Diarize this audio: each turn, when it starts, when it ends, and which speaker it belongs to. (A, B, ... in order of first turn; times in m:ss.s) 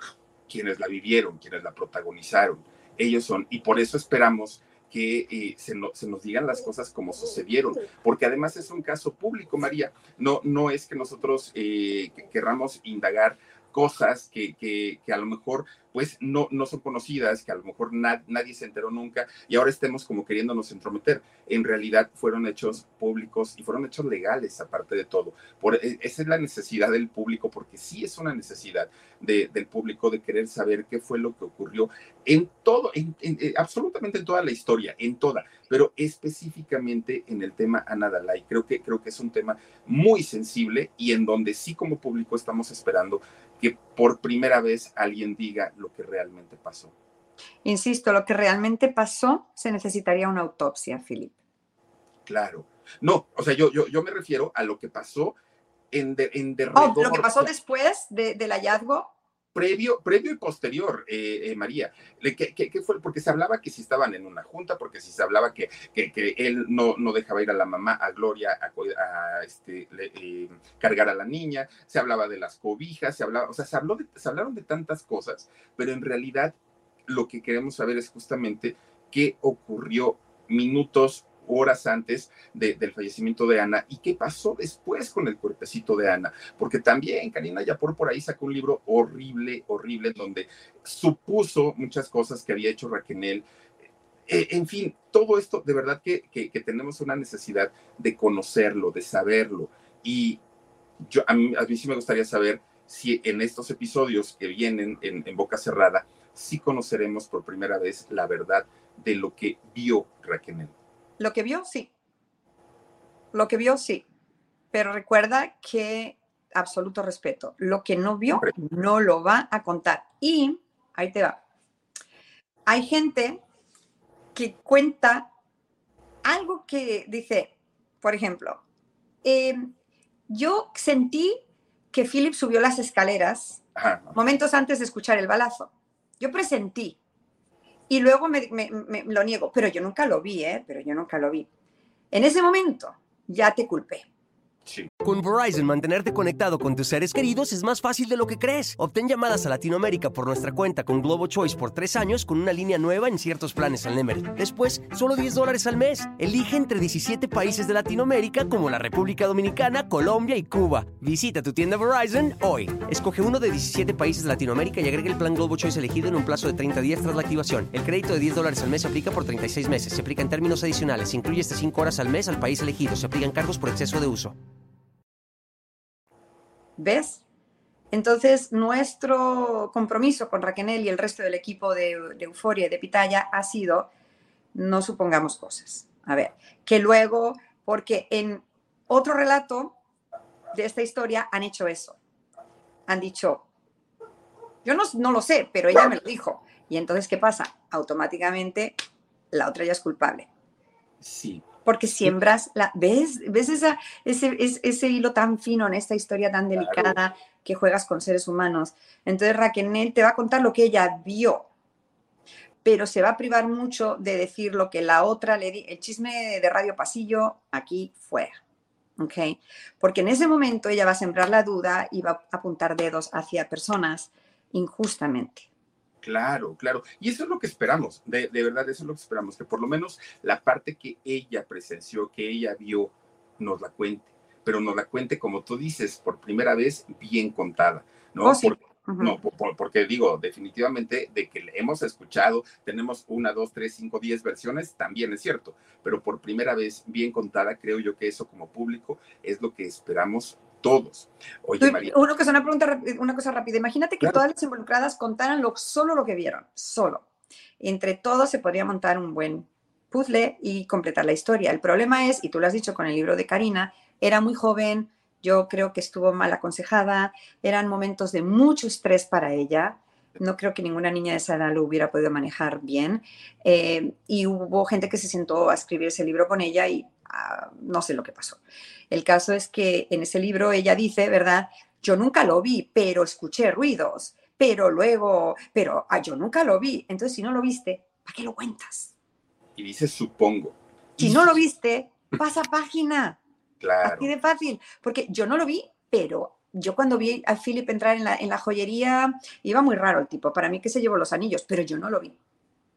0:00.5-0:46.9 A
0:47.6-0:51.3 B
0:52.2-0:55.4 A
0:55.9-0:57.5 A
0:56.8-0:59.1 B
0:59.5-1:16.6 A
1:17.1-1:33.4 A
1:34.3-1:40.4 A
1:41.0-1:50.7 A
1:51.2-1:51.9 B
1:53.3-1:54.0 B
1:54.7-2:01.4 B
2:02.6-2:03.4 B
2:04.3-2:05.3 B
2:06.2-2:08.6 B
2:09.2-2:09.7 B
2:10.3-2:11.4 B
2:11.9-2:13.6 B
2:13.8-2:14.1 A
2:14.1-2:17.0 B
2:17.9-2:21.5 B
2:22.1-2:24.0 B
2:24.6-2:24.9 A
2:25.0-2:54.3 C
2:56.8-2:57.2 B
2:57.9-3:03.9 B
3:04.5-3:09.8 B
3:10.5-3:12.0 B
3:12.9-3:13.4 B
3:14.6-3:18.8 B
3:19.3-3:20.3 B
3:21.0-3:21.4 A
3:21.6-3:31.5 B
3:26.6-3:27.0 A
3:32.6-3:38.4 B
3:39.0-3:45.5 B
3:46.0-4:11.9 A
3:58.2-3:59.2 B
4:11.6-4:17.0 B
4:17.6-4:48.9 B
4:49.6-4:51.4 A
4:51.0-4:53.2 B
4:53.6-4:54.1 A
4:53.8-5:02.2 B